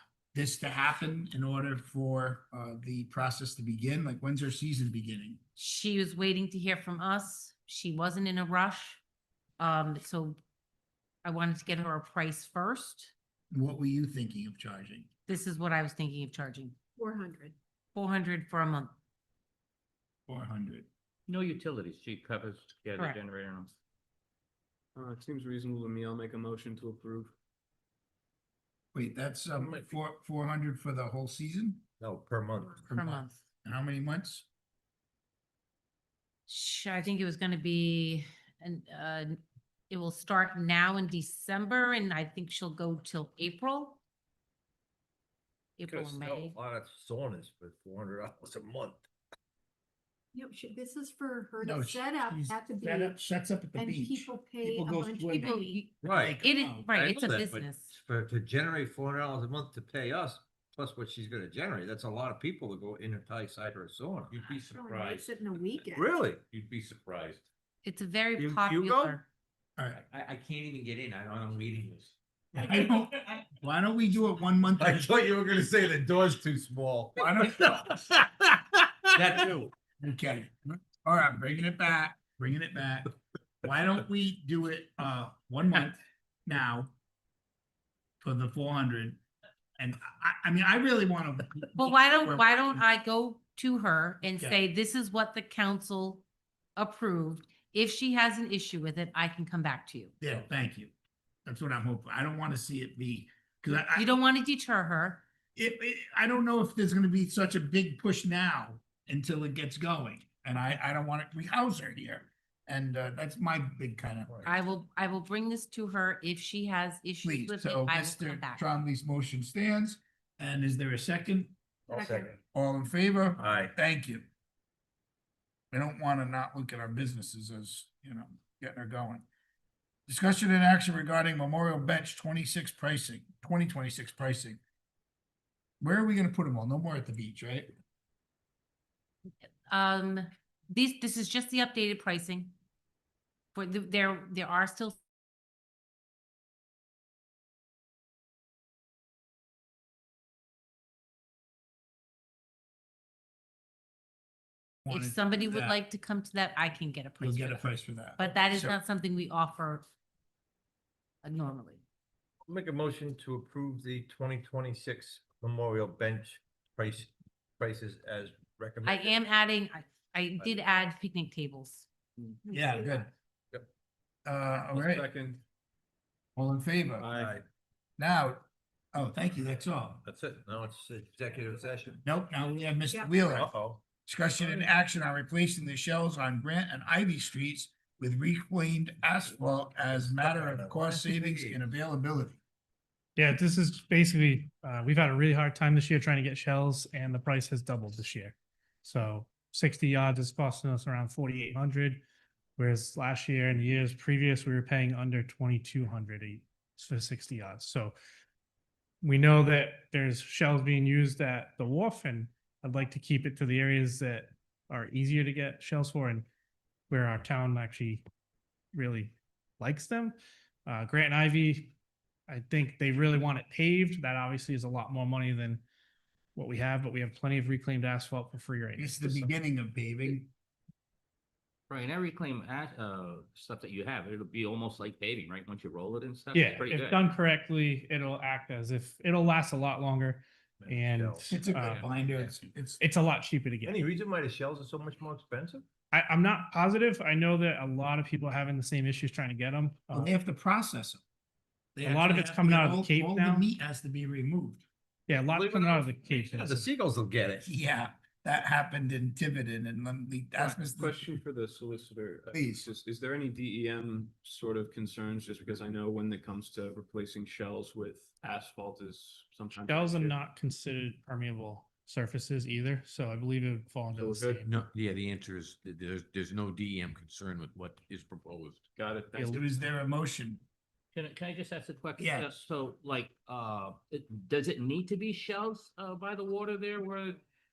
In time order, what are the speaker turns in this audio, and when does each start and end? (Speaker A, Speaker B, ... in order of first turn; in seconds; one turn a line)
Speaker A: 0.3-5.4
Speaker B: 5.6-9.0
Speaker B: 9.6-10.4
Speaker B: 11.2-13.1
Speaker A: 13.5-15.1
Speaker B: 15.3-16.8
Speaker C: 17.0-17.5
Speaker B: 17.9-18.9
Speaker A: 20.3-20.9
Speaker D: 21.3-23.7
Speaker B: 22.9-23.2
Speaker E: 25.0-27.3
Speaker A: 28.9-31.8
Speaker F: 29.6-29.9
Speaker F: 32.0-32.9
Speaker A: 32.9-34.5
Speaker B: 32.9-33.4
Speaker B: 36.5-39.4
Speaker B: 39.9-44.0
Speaker B: 45.8-46.6
Speaker F: 45.9-49.1
Speaker C: 50.3-53.2
Speaker A: 51.6-56.9
Speaker C: 53.8-55.8
Speaker B: 55.4-55.9
Speaker F: 56.0-64.6
Speaker B: 56.4-57.9
Speaker G: 64.3-65.4
Speaker C: 64.7-66.1
Speaker F: 65.9-66.4
Speaker G: 66.4-67.5
Speaker B: 67.8-69.2
Speaker F: 68.4-69.2
Speaker A: 69.8-70.0
Speaker G: 69.9-72.2
Speaker D: 70.2-71.8
Speaker A: 72.5-75.1
Speaker F: 74.8-78.4
Speaker A: 77.2-77.8
Speaker A: 80.0-86.9
Speaker A: 88.2-89.2
Speaker A: 89.8-92.8
Speaker B: 91.8-96.2
Speaker A: 94.3-94.6
Speaker B: 96.8-100.1
Speaker A: 100.2-100.9
Speaker A: 101.5-104.2
Speaker B: 104.0-105.2
Speaker A: 105.6-114.3
Speaker F: 114.3-114.5
Speaker B: 114.5-118.6
Speaker A: 117.2-121.5
Speaker F: 121.9-122.3
Speaker C: 121.9-122.3
Speaker A: 122.5-124.2
Speaker F: 123.4-123.7
Speaker A: 125.7-129.2
Speaker A: 130.1-134.6
Speaker A: 135.8-137.7
Speaker B: 139.7-142.5
Speaker B: 143.6-145.0
Speaker A: 154.9-155.8
Speaker B: 154.9-159.8
Speaker A: 157.2-158.8
Speaker B: 161.2-161.8
Speaker F: 162.5-169.1
Speaker B: 168.8-171.9
Speaker C: 172.5-172.9
Speaker A: 172.5-173.1
Speaker A: 174.3-175.1
Speaker E: 174.7-175.4
Speaker A: 176.4-177.1
Speaker E: 177.0-177.4
Speaker F: 177.1-177.4
Speaker A: 178.0-180.0
Speaker F: 180.1-182.0
Speaker A: 182.0-183.5
Speaker F: 183.3-183.8
Speaker A: 184.0-192.4
Speaker F: 189.9-191.7
Speaker H: 193.2-202.0
Speaker H: 202.6-207.9
Speaker H: 209.0-216.3
Speaker H: 216.9-218.0
Speaker H: 218.7-221.7
Speaker H: 222.3-225.6
Speaker H: 226.4-229.3
Speaker A: 228.8-230.3
Speaker D: 231.7-237.0
Speaker H: 236.3-241.8
Speaker F: 240.6-241.3
Speaker A: 241.3-242.8
Speaker H: 242.8-243.8
Speaker F: 243.7-245.7
Speaker H: 245.9-250.1
Speaker A: 249.9-251.0
Speaker A: 251.8-254.6
Speaker H: 251.8-253.5
Speaker H: 255.1-256.7
Speaker F: 255.3-257.5
Speaker A: 257.4-261.0
Speaker E: 260.4-270.2
Speaker A: 262.3-262.7
Speaker H: 269.7-274.5
Speaker E: 273.9-274.5
Speaker G: 274.4-278.7
Speaker E: 278.8-279.4
Speaker H: 279.1-279.4
Speaker A: 279.2-280.4
Speaker D: 280.9-287.2
Speaker A: 282.0-282.3